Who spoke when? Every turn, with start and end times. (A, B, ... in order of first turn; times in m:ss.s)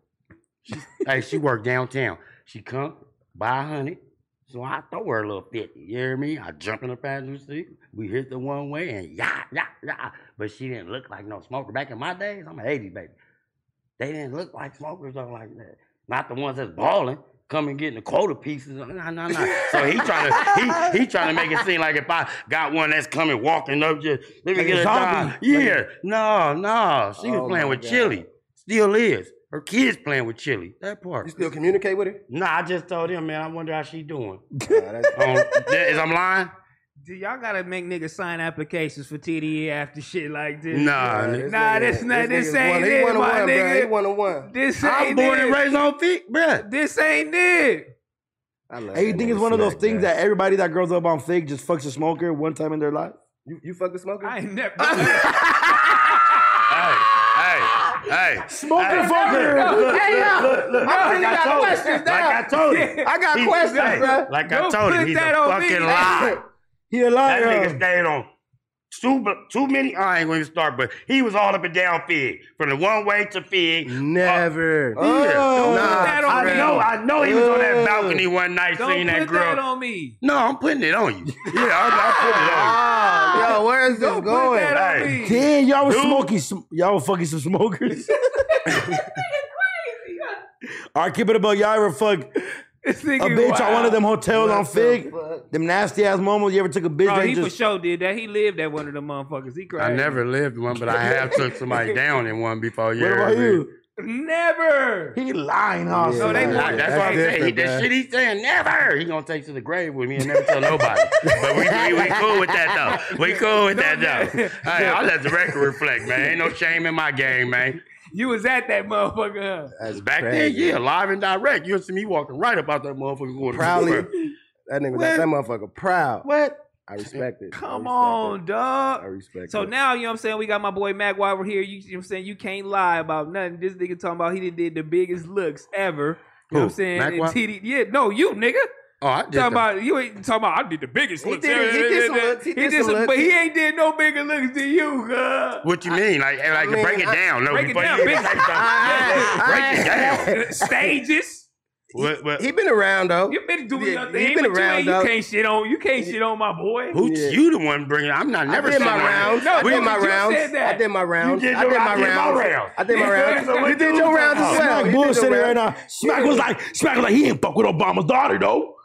0:00.7-0:13.1 A
0:14.0-0:31.3 A
0:19.7-0:21.0 B
0:24.6-0:25.8 B
0:27.2-0:28.2 C
0:31.2-0:32.2 C
0:32.3-0:34.5 A
0:34.6-0:35.2 C
0:35.2-0:36.5 A
0:37.0-0:43.9 D
0:40.7-0:41.5 A
0:41.0-0:44.5 C
0:44.5-0:45.6 D
0:44.8-0:46.6 A
0:46.6-0:47.9 D
0:48.7-0:50.1 C
0:48.9-0:53.2 B
0:53.4-0:57.3 C
0:54.2-0:56.2 D
0:56.7-1:06.4 A
0:58.5-0:59.9 B
0:58.9-1:06.4 D
0:59.6-1:02.4 C
1:03.0-1:04.3 C
1:05.9-1:06.4 C
1:06.9-1:07.8 B
1:07.3-1:08.3 A
1:08.9-1:14.4 A
1:13.9-1:15.0 C
1:15.0-1:16.2 B
1:15.0-1:15.7 A
1:15.5-1:16.9 D
1:15.6-1:18.2 C
1:16.2-1:19.6 A
1:17.2-1:17.8 B
1:18.8-1:20.2 D
1:20.2-1:22.8 A
1:21.9-1:22.6 D
1:22.2-1:24.8 C
1:23.2-1:25.4 D
1:24.7-1:25.2 A
1:25.2-1:28.6 B
1:25.8-1:26.3 A
1:28.3-1:30.4 D
1:30.9-1:32.3 B
1:32.8-1:34.0 D
1:33.2-1:37.5 B
1:34.3-1:35.5 C
1:37.0-1:40.2 D
1:39.8-1:43.6 A
1:40.9-1:42.0 D
1:43.0-1:43.7 B
1:44.0-1:45.2 D
1:45.2-1:46.8 B
1:45.9-1:47.9 C
1:46.2-1:47.3 D
1:46.4-1:57.8 A
1:51.2-1:52.7 C
1:53.1-1:55.0 D
1:58.1-1:59.7 D
1:59.8-2:00.8 C
1:59.9-2:04.1 A
2:03.4-2:04.1 C
2:04.7-2:06.3 C
2:04.9-2:05.3 B
2:06.2-2:06.6 B
2:06.9-2:08.4 C
2:07.5-2:18.7 D
2:09.0-2:09.7 C
2:16.5-2:17.4 A
2:19.0-2:19.6 A
2:19.3-2:25.7 D
2:21.2-2:23.4 C
2:25.6-2:30.3 A
2:26.5-2:27.2 C
2:27.5-2:31.5 D
2:28.4-2:30.5 C
2:31.9-2:35.1 C
2:32.0-2:32.5 A
2:33.3-2:37.0 D
2:36.9-2:40.0 A
2:37.0-2:37.4 C
2:38.5-2:45.6 C
2:39.0-2:40.8 D
2:41.2-2:44.6 A
2:42.9-2:44.5 D
2:44.4-2:48.7 B
2:46.1-2:46.4 D